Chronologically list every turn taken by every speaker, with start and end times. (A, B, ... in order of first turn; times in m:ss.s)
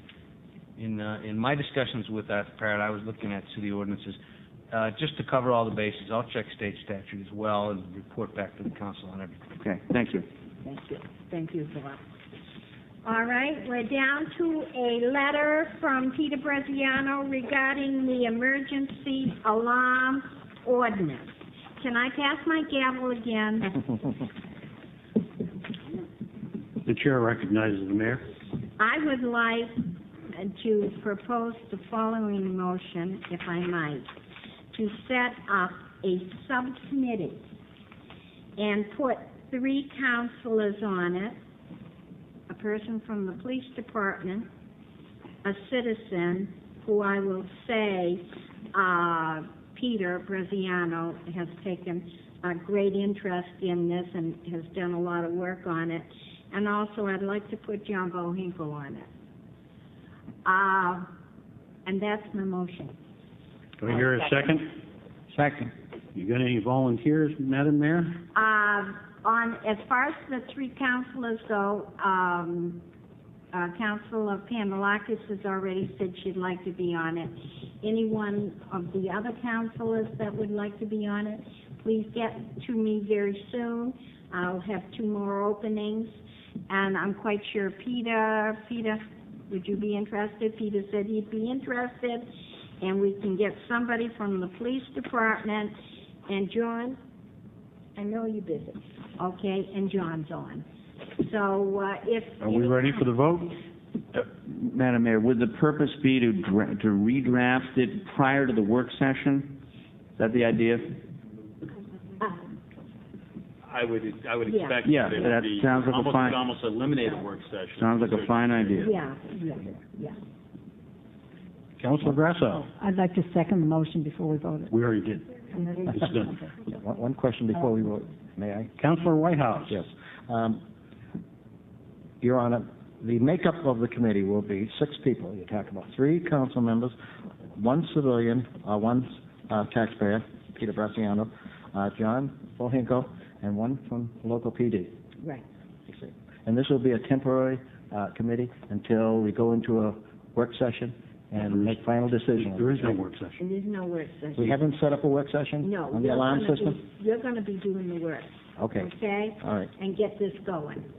0:00.8-0:04.2 A
0:04.7-0:09.5 A
0:09.6-0:10.2 B
0:10.6-0:12.0 C
0:13.0-0:23.8 C
0:26.8-0:28.2 D
0:28.8-0:29.7 C
0:30.3-0:34.1 C
0:34.7-0:37.4 C
0:38.6-0:41.4 C
0:42.5-0:44.5 C
0:45.4-0:59.1 C
1:00.4-1:01.1 C
1:01.8-1:03.0 C
1:03.8-1:04.8 D
1:05.3-1:08.2 D
1:08.3-1:12.8 C
1:13.5-1:26.1 C
1:26.7-1:32.3 C
1:32.8-1:35.7 C
1:36.3-1:37.0 C
1:38.0-1:40.6 C
1:41.2-1:43.0 C
1:42.4-1:43.6 D
1:44.1-1:49.6 B
1:50.2-1:51.0 B
1:52.2-1:52.4 C
1:53.6-1:58.9 E
1:54.5-1:54.8 C
1:54.8-1:56.4 B
1:57.8-1:58.9 B
1:58.8-2:00.2 C
2:01.8-2:02.7 D
2:02.8-2:04.7 F
2:04.7-2:06.4 D
2:05.6-2:06.2 F
2:06.6-2:08.7 G
2:08.8-2:09.8 D
2:09.7-2:10.6 G
2:12.2-2:16.9 G
2:17.6-2:24.9 G
2:25.9-2:32.9 G
2:31.4-2:31.7 D
2:32.3-2:33.4 D
2:33.4-2:34.6 C
2:34.4-2:36.8 G
2:35.6-2:40.9 C
2:38.6-2:39.7 G